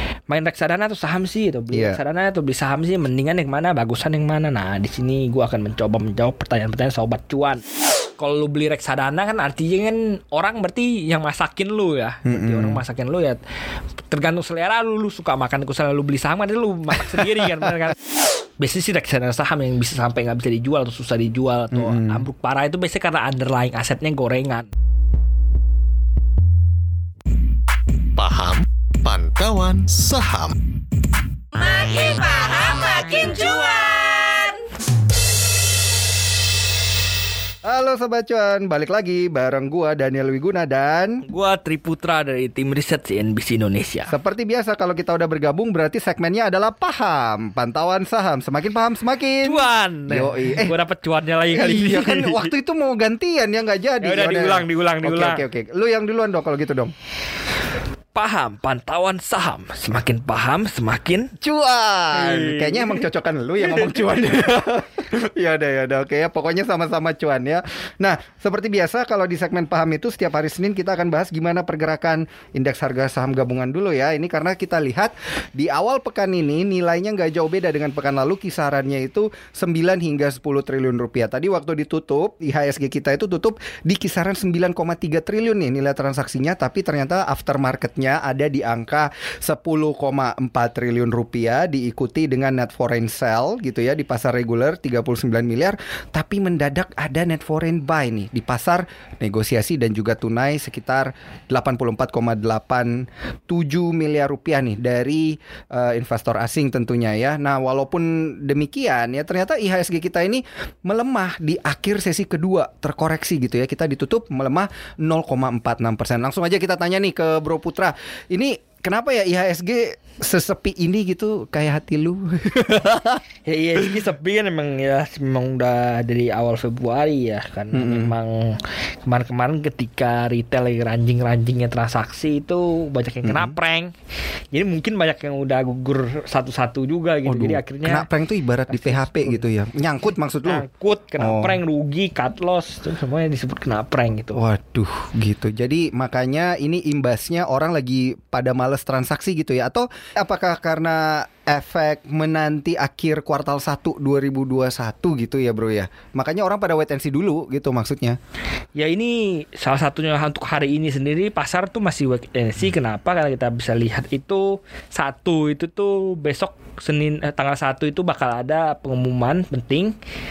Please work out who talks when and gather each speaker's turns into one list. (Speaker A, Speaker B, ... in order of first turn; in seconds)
Speaker A: 0.3-7.6, 8.2-13.4, 14.1-18.0, 18.6-24.7, 31.6-34.5, 41.2-44.1, 49.4-52.5, 54.0-55.5, 58.1-61.3, 62.1-63.1, 63.6-64.3, 123.5-133.9, 134.5-138.1, 138.7-139.4, 140.4-144.4, 158.8-169.9
Speaker B: 1.7-2.0, 12.3-12.8, 21.7-22.2, 37.6-41.2, 44.1-50.8, 51.5-56.9, 61.4-123.2, 127.7-128.2, 133.2-133.6, 137.2-140.7, 141.2-141.6, 144.3-158.2
Speaker C: 28.1-30.5